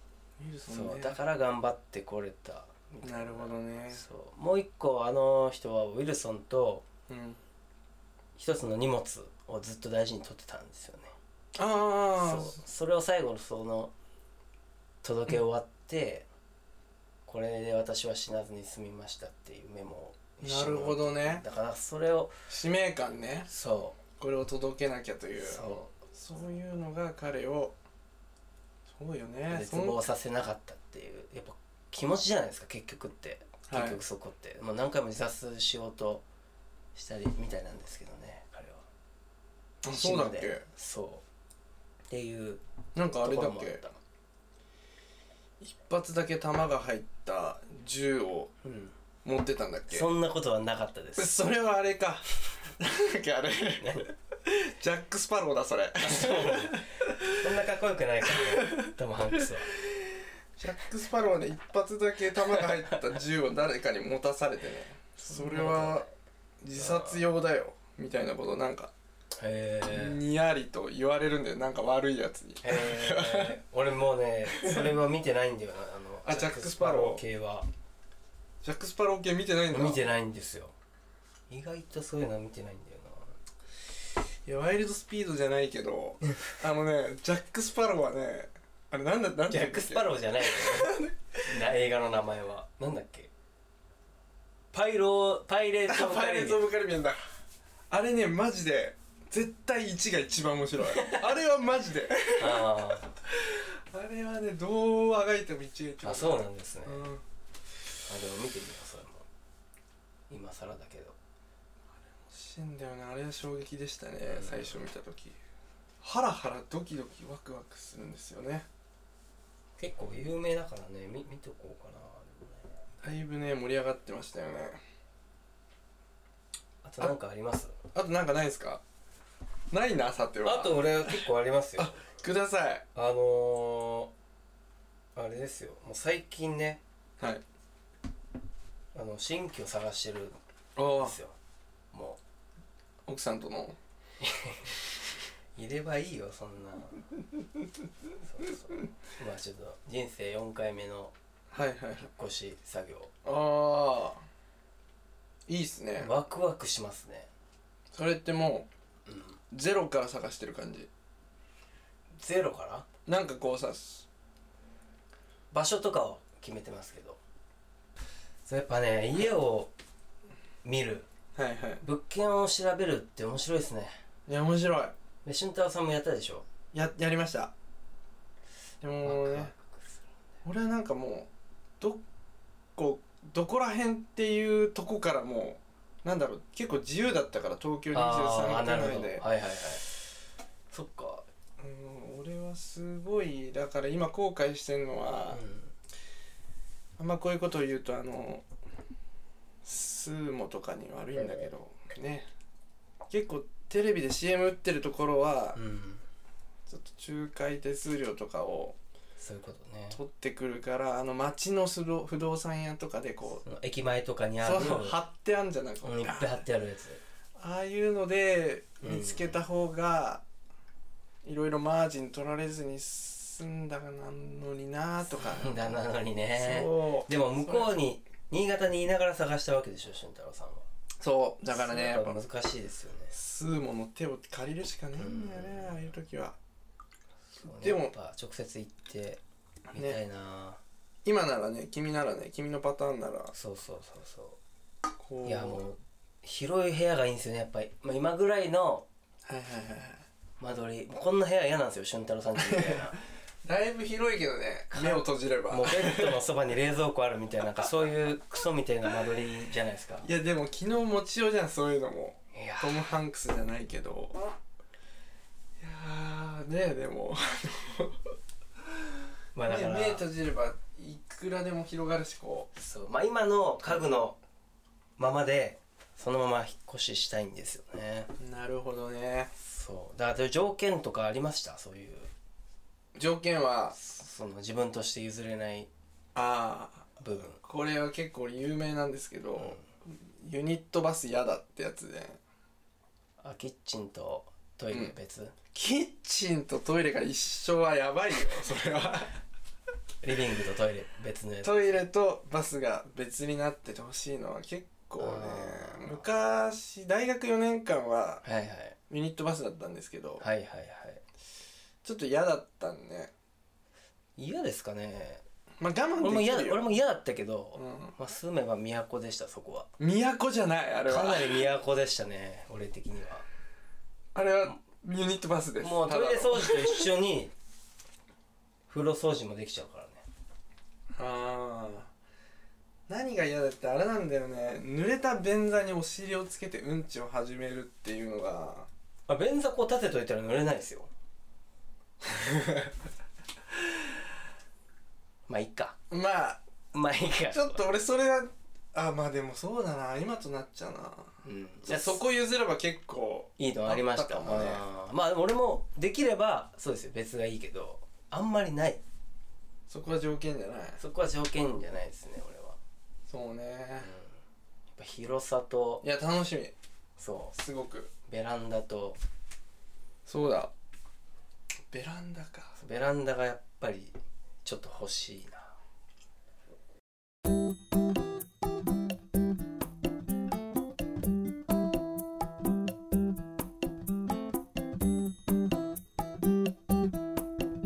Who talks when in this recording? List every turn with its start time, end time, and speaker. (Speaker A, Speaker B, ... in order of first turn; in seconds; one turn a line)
Speaker A: 0.4-1.2
Speaker B: 0.7-6.8
Speaker A: 3.0-4.0
Speaker A: 7.1-7.4
Speaker B: 8.4-11.1
Speaker A: 11.6-12.6
Speaker B: 12.2-13.9
Speaker B: 15.0-16.3
Speaker B: 17.3-22.3
Speaker A: 20.4-21.4
Speaker A: 22.5-23.5
Speaker B: 23.5-24.0
Speaker A: 24.2-27.8
Speaker B: 25.4-25.9
Speaker A: 28.9-30.0
Speaker B: 29.5-36.2
Speaker A: 33.7-34.0
Speaker B: 37.0-38.9
Speaker A: 39.8-40.6
Speaker B: 39.9-41.2
Speaker B: 42.1-42.6
Speaker A: 43.0-43.8
Speaker B: 43.2-44.0
Speaker A: 45.6-48.5
Speaker B: 48.6-48.9
Speaker A: 49.2-50.1
Speaker B: 49.9-51.4
Speaker A: 51.2-57.5
Speaker B: 53.8-54.1
Speaker B: 56.0-59.7
Speaker A: 58.3-58.9
Speaker A: 60.6-66.1
Speaker B: 62.5-63.0
Speaker B: 65.2-66.1
Speaker A: 66.6-68.9
Speaker B: 66.8-67.2
Speaker B: 69.4-70.2
Speaker A: 69.9-73.6
Speaker B: 72.6-77.7
Speaker A: 74.5-75.0
Speaker A: 76.3-77.2
Speaker A: 78.6-80.0
Speaker B: 79.7-80.7
Speaker B: 81.5-83.3
Speaker A: 84.5-91.2
Speaker B: 89.5-93.3
Speaker B: 94.7-96.6
Speaker A: 95.9-97.2
Speaker A: 97.9-107.2
Speaker B: 100.9-101.3
Speaker B: 102.4-103.1
Speaker B: 106.0-107.1
Speaker B: 108.1-109.2
Speaker B: 110.3-111.2
Speaker A: 112.2-115.4
Speaker B: 114.3-114.8
Speaker A: 116.0-118.7
Speaker B: 119.8-122.7
Speaker A: 123.0-124.8
Speaker B: 126.8-127.8
Speaker A: 127.9-128.8
Speaker A: 129.7-131.3
Speaker B: 130.4-132.1
Speaker A: 131.8-132.9
Speaker B: 132.9-134.1
Speaker B: 135.2-136.8
Speaker B: 138.9-141.3
Speaker A: 140.8-141.2
Speaker B: 141.9-142.2
Speaker A: 143.1-143.8
Speaker B: 144.2-144.8
Speaker B: 145.6-147.1
Speaker B: 148.2-151.2
Speaker A: 151.5-152.1
Speaker B: 152.0-153.1
Speaker A: 153.2-154.2
Speaker A: 155.5-156.1
Speaker B: 156.0-157.3
Speaker A: 157.9-158.7
Speaker B: 159.1-159.4
Speaker A: 159.5-160.9
Speaker B: 162.2-162.9
Speaker A: 163.1-164.1
Speaker B: 165.5-167.2
Speaker B: 168.5-169.7
Speaker B: 170.6-171.1
Speaker A: 171.4-171.8
Speaker B: 171.8-173.9
Speaker A: 174.3-174.9
Speaker B: 175.2-176.5
Speaker A: 176.7-177.5
Speaker A: 178.8-179.5
Speaker B: 179.0-180.0
Speaker A: 180.4-181.3
Speaker A: 182.8-189.3
Speaker B: 187.9-189.9
Speaker B: 190.7-191.3
Speaker A: 191.6-195.4
Speaker B: 195.3-195.7
Speaker A: 197.0-198.5
Speaker A: 199.6-202.3
Speaker A: 203.1-205.6
Speaker B: 205.6-206.0
Speaker A: 206.7-208.8
Speaker B: 209.2-210.0
Speaker A: 209.9-213.4
Speaker B: 213.4-215.0
Speaker A: 214.4-216.4
Speaker B: 215.8-217.0
Speaker A: 217.4-220.2
Speaker B: 218.8-219.4
Speaker A: 221.2-225.8
Speaker B: 225.1-230.7
Speaker A: 226.3-227.7
Speaker A: 231.0-232.2
Speaker B: 231.5-233.1
Speaker A: 233.1-236.4
Speaker B: 235.0-235.8
Speaker B: 237.3-239.2
Speaker A: 237.4-237.9
Speaker A: 239.7-240.0
Speaker B: 239.7-240.6
Speaker A: 241.1-243.3
Speaker B: 243.3-244.4
Speaker A: 245.0-245.6
Speaker B: 245.2-248.9
Speaker A: 249.2-250.0
Speaker B: 250.4-253.0
Speaker A: 252.4-252.9
Speaker A: 253.4-256.2
Speaker B: 254.7-260.1
Speaker A: 260.0-264.3
Speaker B: 262.3-262.8
Speaker A: 265.6-268.1
Speaker B: 269.4-270.1
Speaker A: 269.5-272.5
Speaker B: 272.6-274.2
Speaker B: 275.0-278.1
Speaker A: 278.2-279.3
Speaker B: 279.4-282.1
Speaker A: 282.9-283.8
Speaker B: 283.8-285.7
Speaker A: 286.1-286.9
Speaker B: 287.0-287.4
Speaker A: 287.4-292.2
Speaker B: 289.4-289.7
Speaker B: 293.2-295.3
Speaker A: 295.5-299.2
Speaker B: 300.0-301.8
Speaker A: 301.4-308.2
Speaker B: 305.0-306.0
Speaker B: 308.2-308.8
Speaker A: 308.9-310.2
Speaker B: 310.2-311.0
Speaker A: 311.8-313.1
Speaker B: 314.2-315.2
Speaker A: 315.6-316.7
Speaker B: 316.0-319.7
Speaker A: 317.6-317.9
Speaker A: 319.8-321.5
Speaker B: 320.9-323.2
Speaker A: 324.1-326.9
Speaker B: 325.6-327.3
Speaker B: 328.7-330.0
Speaker A: 330.9-331.9
Speaker A: 332.9-338.7
Speaker B: 339.1-340.9
Speaker A: 342.0-342.7
Speaker B: 345.3-345.8
Speaker A: 345.9-346.4
Speaker B: 346.7-347.6
Speaker A: 347.3-354.6
Speaker B: 351.3-352.0
Speaker B: 353.4-358.8
Speaker A: 359.7-360.8
Speaker B: 360.8-362.6
Speaker A: 363.1-363.9
Speaker B: 363.8-364.1
Speaker B: 364.8-365.8
Speaker A: 365.8-366.5
Speaker B: 367.0-367.4
Speaker A: 367.3-367.9
Speaker B: 368.1-369.0
Speaker A: 370.1-370.5
Speaker A: 371.7-372.6
Speaker B: 372.6-375.5